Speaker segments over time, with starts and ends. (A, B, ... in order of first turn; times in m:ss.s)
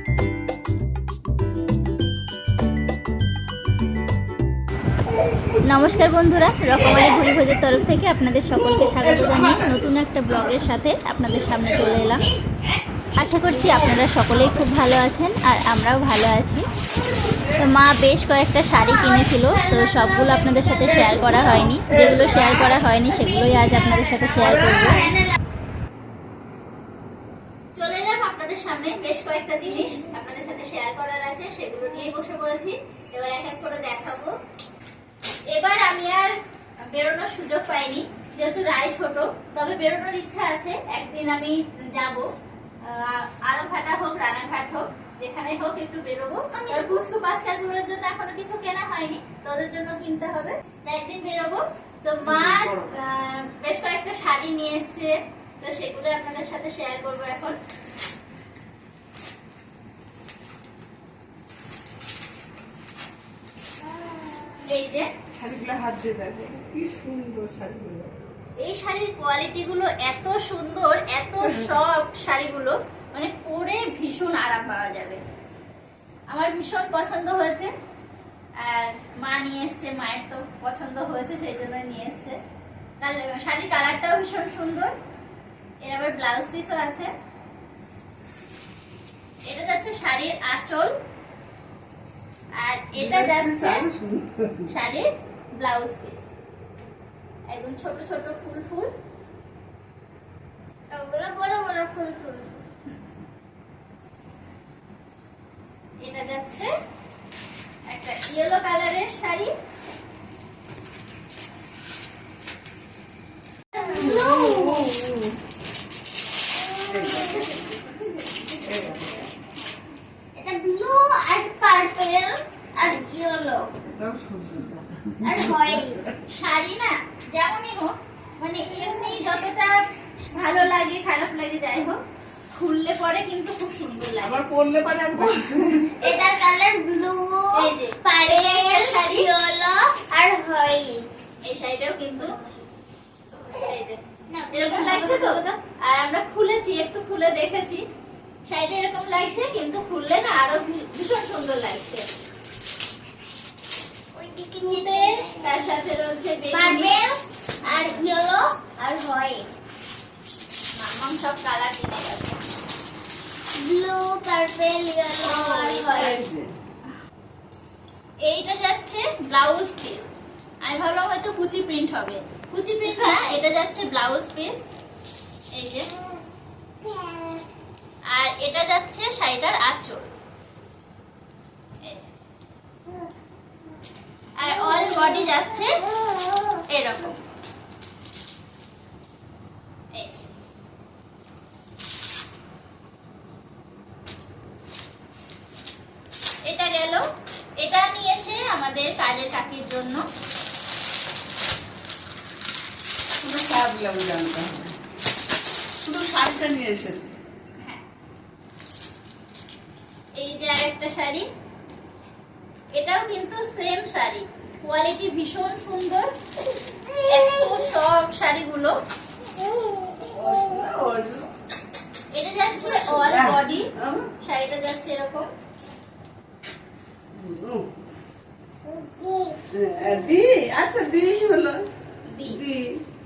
0:05.6-0:12.2 A
0:08.6-0:10.6 B
0:13.2-0:16.6 A
0:13.4-0:14.6 B
0:16.9-0:17.7 B
0:17.6-0:25.1 A
0:18.8-0:25.2 C
0:20.8-0:22.8 B
0:24.4-0:25.2 B
0:27.8-0:34.3 A
0:35.5-0:36.3 A
0:36.9-0:42.3 A
0:42.8-0:57.6 A
0:46.5-0:47.0 C
0:52.2-0:53.0 B
1:04.1-1:04.4 C
1:04.7-1:05.0 A
1:05.4-1:08.3 B
1:08.6-1:15.2 A
1:11.4-1:11.7 B
1:16.3-1:17.7 A
1:18.6-1:22.4 A
1:23.0-1:24.9 A
1:25.8-1:27.1 A
1:29.5-1:30.9 A
1:32.6-1:33.8 A
1:33.0-1:34.7 B
1:34.7-1:36.2 A
1:37.5-1:38.9 A
1:40.9-1:42.6 C
1:46.0-1:46.7 A
1:47.9-1:49.5 A
1:53.8-1:54.9 C
1:53.8-1:55.4 B
1:56.6-1:57.6 C
1:56.9-1:59.2 B
2:00.3-2:03.7 C
2:03.8-2:06.1 B
2:05.2-2:06.0 C
2:06.3-2:09.8 A
2:10.3-2:12.0 A
2:12.5-2:14.4 A
2:14.2-2:16.0 B
2:16.0-2:21.1 C
2:17.5-2:19.3 A
2:21.5-2:22.4 A
2:22.2-2:22.7 C
2:23.3-2:24.0 A
2:24.3-2:25.6 C
2:24.5-2:27.8 A
2:28.5-2:32.0 A
2:34.1-2:35.7 C
2:34.6-2:37.0 A
2:36.5-2:39.5 C
2:37.6-2:38.2 A
2:40.8-2:42.4 A
2:43.6-2:46.2 C
2:45.2-2:46.2 A
2:45.9-2:46.5 B
2:48.3-2:50.1 A
2:50.6-2:54.6 A
2:55.5-2:55.9 A
2:56.8-2:57.4 C
2:58.1-3:00.1 A
3:01.8-3:02.1 A
3:04.4-3:05.8 A
3:06.7-3:07.2 A
3:09.9-3:10.3 A
3:16.5-3:17.0 A
3:17.6-3:20.0 A
3:23.2-3:24.7 B
3:25.8-3:27.1 B
3:30.2-3:31.2 A
3:32.8-3:36.1 A
3:37.1-3:38.7 A
3:40.0-3:41.3 B
3:42.1-3:43.7 A
3:42.8-3:44.1 B
3:44.2-3:45.3 A
3:47.1-3:47.7 B
3:48.8-3:49.4 C
3:49.5-3:51.6 B
3:52.1-3:52.4 C
3:52.2-3:52.8 B